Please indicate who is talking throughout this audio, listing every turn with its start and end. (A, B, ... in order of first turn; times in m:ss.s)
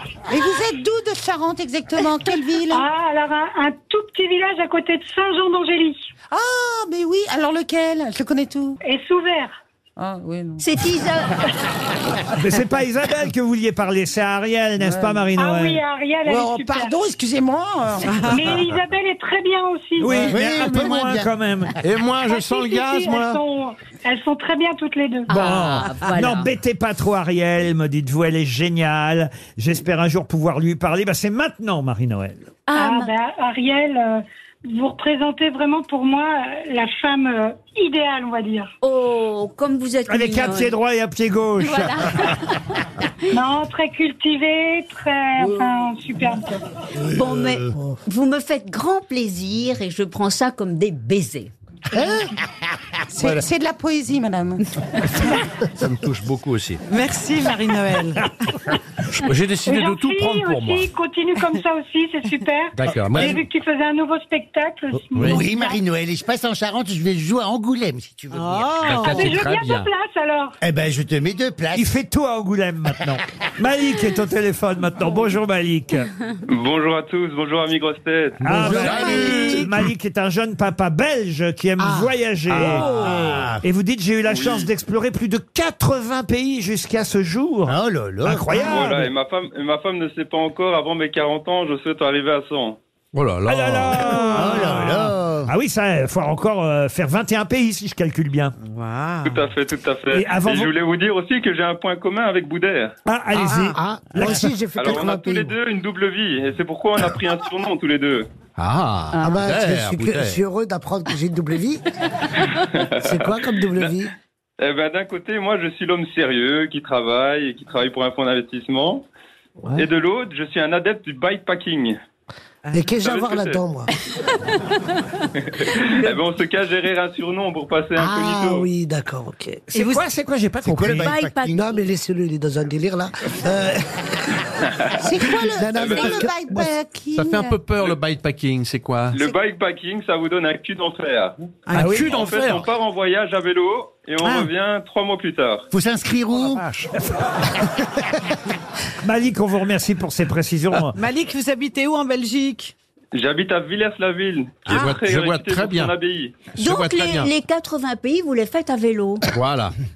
0:00.3-0:02.9 A
0:02.7-0:06.0 B
0:06.3-0:08.8 A
0:08.8-0:09.6 B
0:10.0-0:10.7 A
0:10.6-0:11.4 C
0:12.3-0:15.8 D
0:14.8-0:15.2 A
0:15.4-0:16.9 B
0:16.2-0:18.4 A
0:18.1-0:18.4 E
0:18.3-0:20.3 B
0:20.0-0:21.8 D
0:20.2-0:21.3 F
0:21.8-0:23.4 G
0:22.3-0:25.3 B
0:25.3-0:26.5 C
0:25.3-0:32.4 D
0:32.7-0:33.1 C
0:32.8-0:38.7 B
0:38.8-0:40.8 C
0:40.1-0:42.3 D
0:41.6-0:42.8 C
0:43.3-0:46.5 B
0:47.1-0:51.5 C
0:53.1-0:54.6 A
0:55.3-0:56.8 G
0:56.9-0:58.3 E
0:59.1-1:00.9 G
0:59.7-1:05.8 B
1:02.8-1:03.4 G
1:03.1-1:03.4 F
1:05.1-1:09.1 F
1:05.2-1:05.4 G
1:08.3-1:09.3 E
1:08.8-1:09.9 G
1:09.2-1:10.6 B
1:10.6-1:12.0 F
1:11.7-1:16.1 D
1:16.5-1:18.6 H
1:18.4-1:29.1 D
1:18.4-1:19.7 F
1:18.6-1:19.7 E
1:18.7-1:19.6 G
1:21.8-1:22.1 I
1:22.5-1:23.6 F
1:22.6-1:23.2 E
1:23.1-1:23.5 G
1:24.2-1:24.7 H
1:27.7-1:28.7 F
1:28.6-1:32.8 H
1:33.1-1:34.6 G
1:33.5-1:38.6 D
1:34.3-1:35.5 F
1:38.6-1:39.5 E
1:39.2-1:43.0 H
1:40.1-1:40.7 D
1:43.1-1:44.6 D
1:43.4-1:43.8 E
1:43.4-1:45.6 I
1:44.8-1:48.3 H
1:48.6-1:50.4 G
1:49.1-1:49.4 C
1:49.2-1:51.8 I
1:52.7-1:54.0 H
1:53.0-1:54.1 I
1:54.6-1:59.0 H
1:59.7-2:02.0 H
2:02.7-2:03.9 I
2:03.0-2:03.6 H
2:05.6-2:08.7 H
2:05.7-2:06.2 C
2:08.0-2:09.6 I
2:09.7-2:10.0 E
2:09.7-2:11.1 D
2:10.6-2:11.6 F
2:11.0-2:11.8 C
2:11.5-2:14.2 I
2:15.0-2:17.6 A
2:15.2-2:16.7 I
2:15.7-2:16.2 H
2:17.2-2:19.2 G
2:19.1-2:21.4 H
2:21.7-2:22.3 E
2:21.7-2:22.2 D
2:21.8-2:22.7 G
2:22.1-2:25.7 H
2:24.2-2:24.5 E
2:25.7-2:26.6 F
2:26.4-2:26.9 G
2:29.0-2:31.0 D
2:30.9-2:32.7 E
2:33.1-2:36.4 H
2:34.6-2:36.0 G
2:34.7-2:35.1 E
2:36.6-2:37.3 G
2:36.6-2:39.3 C
2:39.3-2:39.7 G